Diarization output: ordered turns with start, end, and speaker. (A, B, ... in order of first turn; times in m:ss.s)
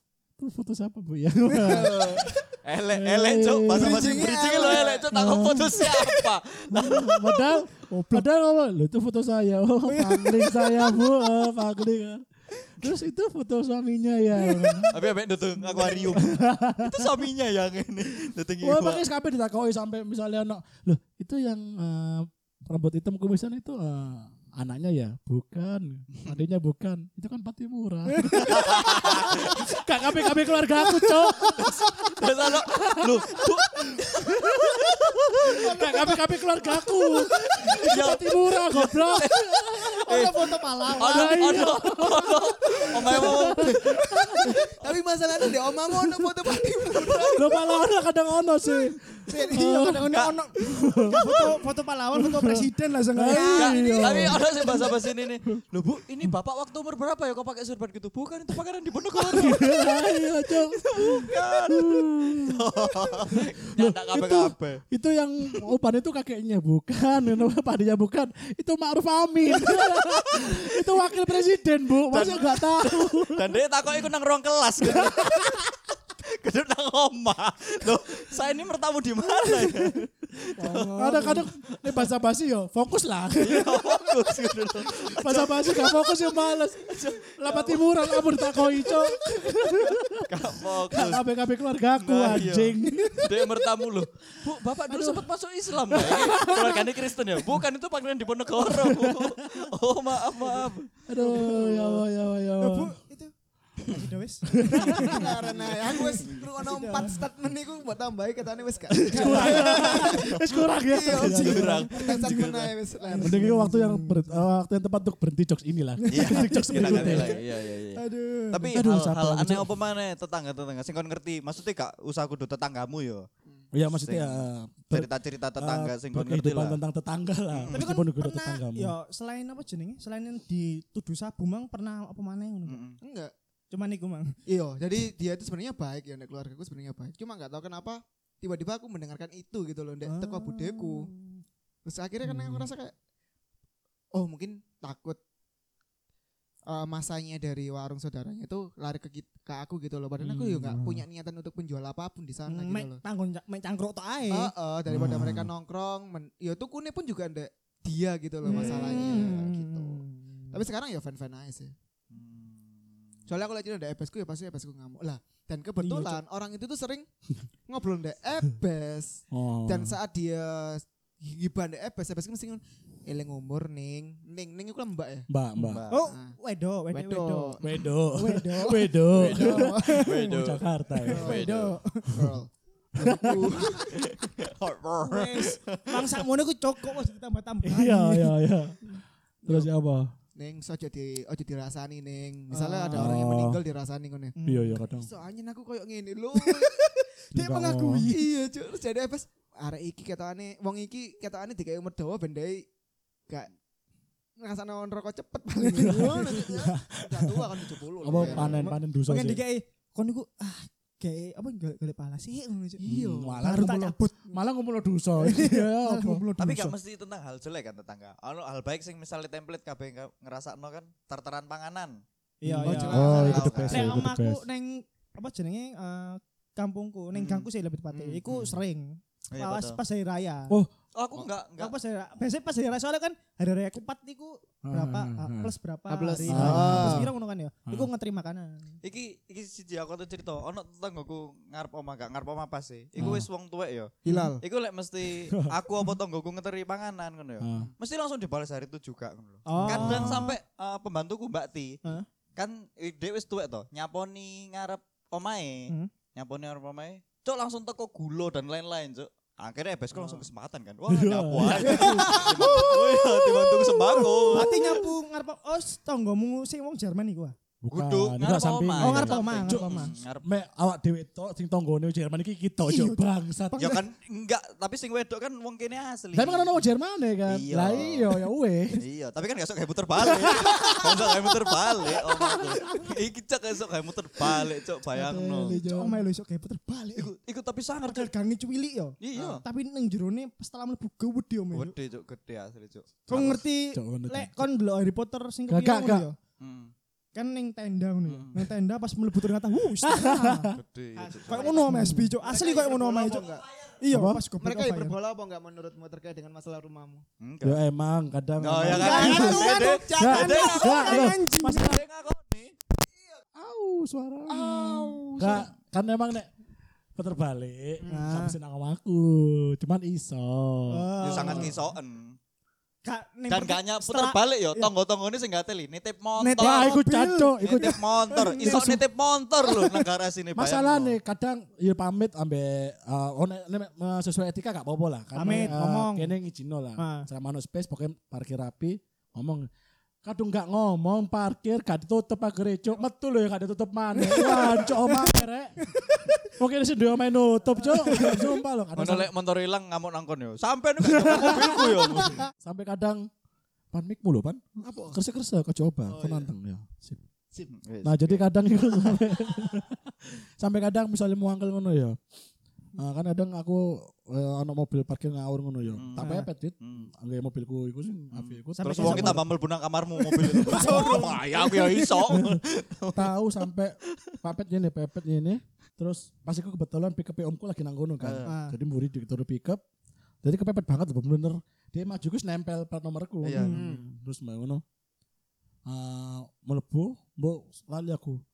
0:00.4-0:15.0 A
0:01.6-0:02.3 B
0:02.6-0:07.6 C
0:03.7-0:05.1 B
0:09.9-0:11.5 D
0:14.4-0:14.9 D
0:14.9-0:19.0 C
0:15.7-0:16.0 D
0:16.1-0:17.2 A
0:18.6-0:40.3 A
0:28.2-0:28.6 D
0:28.5-0:29.7 C
0:31.5-0:35.8 C
0:35.6-0:36.1 D
0:37.6-0:44.0 C
0:40.1-0:41.7 D
0:41.0-0:44.6 A
0:43.2-0:47.6 B
0:46.9-0:47.5 C
0:47.3-0:51.2 A
0:49.3-0:54.4 D
0:50.1-0:51.2 C
0:52.2-0:55.0 A
0:53.6-1:00.0 C
0:59.2-1:02.7 A
1:00.8-1:04.8 C
1:03.3-1:13.6 A
1:09.6-1:11.1 C
1:12.1-1:22.1 C
1:14.8-1:15.6 A
1:19.6-1:19.9 A
1:20.6-1:21.3 D
1:20.6-1:33.7 A
1:23.4-1:26.2 C
1:26.8-1:29.2 C
1:30.2-1:31.3 C
1:32.0-1:40.9 C
1:34.9-1:35.3 A
1:35.9-1:37.0 A
1:38.6-1:39.3 A
1:41.1-1:43.0 A
1:41.2-1:41.7 D
1:41.4-1:41.7 C
1:42.6-1:45.3 D
1:44.5-1:45.4 A
1:44.9-1:53.5 B
1:46.2-1:46.5 C
1:46.6-1:47.2 D
1:48.9-1:51.9 A
1:49.2-1:49.9 D
1:49.5-1:50.4 C
1:51.0-1:52.8 C
1:51.1-1:51.9 D
1:53.0-1:54.4 D
1:53.2-1:57.4 A
1:56.0-1:58.8 D
1:56.1-2:03.3 C
1:58.7-1:59.7 A
2:03.7-2:09.0 A
2:03.9-2:06.8 C
2:07.5-2:07.8 C
2:07.7-2:12.8 D
2:12.7-2:13.0 C
2:13.0-2:13.3 B
2:13.7-2:14.4 D
2:14.5-2:21.1 B
2:20.1-2:21.4 D
2:21.9-2:22.9 B
2:22.2-2:22.7 A
2:24.1-2:25.2 B
2:26.7-2:33.0 B
2:30.2-2:31.0 A
2:32.5-2:34.5 D
2:34.3-2:40.0 B
2:34.9-2:35.5 A
2:38.4-2:40.6 D
2:38.5-2:38.9 A
2:40.5-2:41.7 B
2:42.1-2:42.8 C
2:43.3-2:47.1 B
2:45.8-2:46.2 A
2:47.7-2:55.3 B
2:49.3-2:50.0 A
2:55.3-2:55.8 A
2:55.6-2:56.1 C
2:55.9-3:00.3 D
2:56.1-2:56.4 B
2:56.9-2:57.9 B
2:57.6-3:01.5 A
2:58.6-3:00.1 B
2:59.2-3:01.7 C
3:01.0-3:02.1 D
3:01.1-3:04.1 B
3:02.1-3:02.4 A
3:03.0-3:03.6 A
3:03.9-3:06.2 C
3:05.1-3:08.4 D
3:07.6-3:10.1 A
3:09.4-3:09.7 B
3:10.4-3:14.4 B
3:12.5-3:13.1 D
3:12.9-3:13.6 A
3:14.4-3:14.8 D
3:14.4-3:15.1 A
3:14.9-3:16.9 B
3:16.4-3:18.3 D
3:17.3-3:18.1 A
3:18.1-3:22.6 B
3:24.4-3:28.8 B
3:25.6-3:26.5 D
3:25.7-3:29.4 A
3:28.1-3:32.8 D
3:32.8-3:33.4 B
3:32.8-3:36.7 A
3:33.4-3:34.4 D
3:35.2-3:36.7 D
3:36.4-3:42.0 C
3:42.4-3:50.6 D
3:42.4-3:44.4 A
3:42.6-3:43.9 B
3:42.8-3:43.9 C
3:47.1-3:48.5 C
3:49.3-3:49.8 C
3:51.0-3:51.7 C
3:51.6-3:58.8 D
3:54.6-3:55.5 A
3:55.9-3:57.1 B
3:56.2-3:57.1 A
3:58.8-4:11.8 C
4:03.0-4:03.3 A
4:04.0-4:04.4 B
4:04.1-4:04.3 D
4:07.4-4:07.7 A
4:09.5-4:10.4 D
4:09.6-4:10.3 A
4:12.4-4:24.8 C
4:20.0-4:20.2 D
4:20.9-4:22.7 A
4:21.4-4:22.9 D
4:22.1-4:22.7 B
4:24.1-4:24.6 A
4:24.3-4:27.4 D
4:27.6-4:33.8 A
4:27.7-4:30.2 C
4:28.8-4:29.9 D
4:32.7-4:33.8 D
4:33.6-4:36.6 C
4:36.1-4:38.8 A
4:37.3-4:38.2 C
4:38.8-4:45.6 C
4:40.0-4:42.5 A
4:44.9-4:46.0 A
4:45.4-4:47.1 D
4:47.0-4:48.1 C
4:47.8-4:51.8 D
4:49.0-4:49.4 C
4:51.5-4:53.4 C
4:53.1-4:56.2 D
4:53.1-4:54.4 A
4:55.5-4:56.1 A
4:56.4-4:56.7 C
4:57.2-5:05.0 D
4:58.1-4:58.5 C
4:59.8-5:00.6 A
5:00.6-5:01.6 C
5:01.2-5:03.5 B
5:01.7-5:02.1 A
5:03.9-5:04.2 A
5:04.4-5:07.0 B
5:07.2-5:07.6 C
5:07.4-5:11.3 A
5:08.4-5:12.5 C
5:08.7-5:10.6 B
5:08.7-5:11.8 D
5:13.4-5:16.3 A
5:14.3-5:15.5 B
5:17.0-5:21.5 A
5:17.8-5:18.1 B
5:17.9-5:18.4 D
5:20.7-5:21.5 D
5:21.0-5:22.2 C
5:22.8-5:24.7 D
5:23.3-5:26.8 C
5:26.2-5:28.8 D
5:26.4-5:27.8 A
5:27.4-5:31.0 C
5:28.4-5:28.8 A
5:29.5-5:29.8 D
5:30.4-5:39.5 A
5:35.2-5:36.1 D
5:36.8-5:37.1 D
5:40.0-5:45.7 A
5:44.0-5:46.2 D
5:46.3-5:49.1 A
5:47.6-5:48.3 D
5:48.8-5:52.2 C
5:50.8-5:53.1 A
5:53.7-5:57.0 A
5:54.6-5:55.0 B
5:55.9-5:56.3 B
5:57.5-5:58.2 C
5:57.8-6:02.0 A
6:02.8-6:09.3 A
6:05.7-6:06.9 C
6:06.0-6:06.3 D
6:08.1-6:13.2 C
6:08.6-6:09.2 D
6:10.1-6:12.2 D
6:10.3-6:11.1 A
6:12.1-6:12.4 A
6:12.9-6:19.6 A
6:18.0-6:18.3 C
6:18.2-6:18.6 D
6:20.2-6:24.6 A
6:23.2-6:23.7 C
6:23.4-6:23.6 D
6:23.4-6:23.8 B
6:25.7-6:28.2 A